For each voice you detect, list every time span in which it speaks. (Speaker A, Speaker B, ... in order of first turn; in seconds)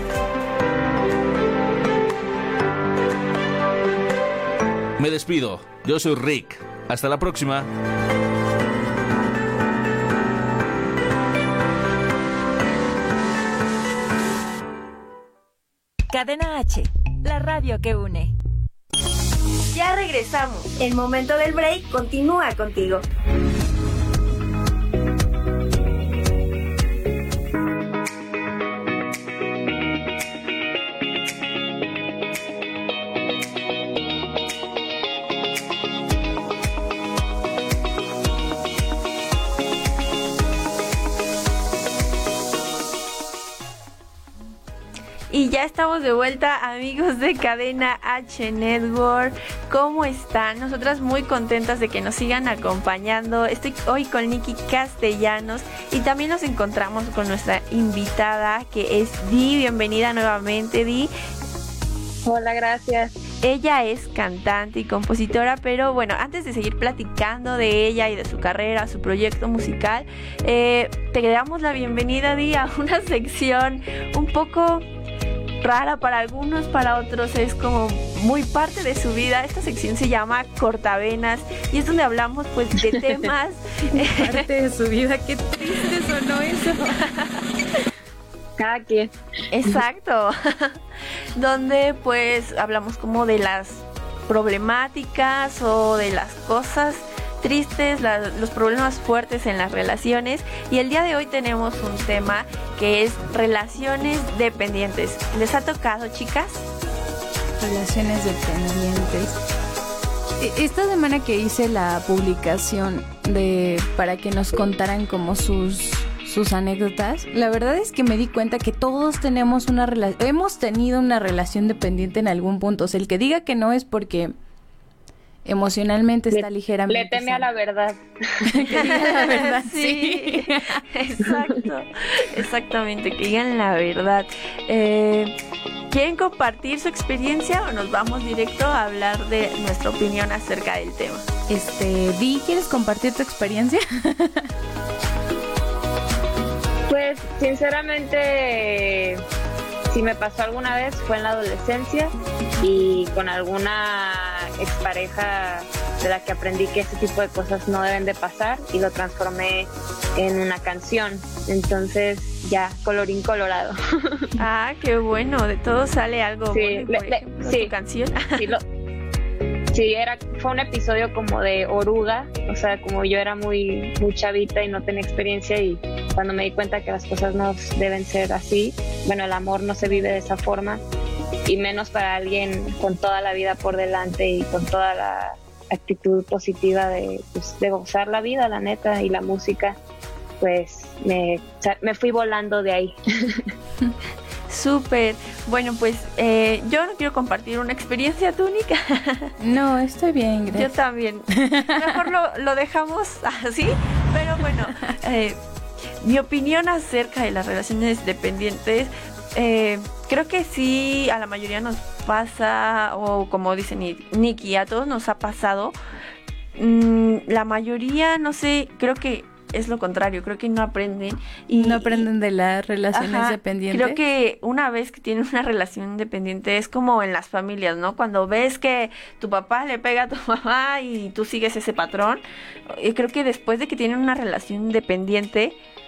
Speaker A: 5.0-7.7
Speaker B: 16.1-18.3
Speaker C: 19.8-23.0, 45.3-61.1, 63.4-74.8, 75.6-84.5, 89.5-90.8, 91.3-106.7, 128.8-135.3, 135.9-141.3, 164.4-168.5, 194.5-199.3, 200.5-205.4, 206.0-215.8, 216.6-222.1, 222.9-235.6
Speaker D: 62.2-63.2, 88.6-89.1, 126.3-128.5, 146.9-149.2, 149.9-164.3, 166.5-167.7, 168.4-168.6, 169.7-180.8, 181.5-189.8, 190.4-193.5
Speaker E: 83.9-87.1, 107.6-109.4, 110.4-124.3, 125.5-127.5, 128.4-130.8, 141.5-144.5, 199.4-200.7, 201.3-202.0, 221.5-224.0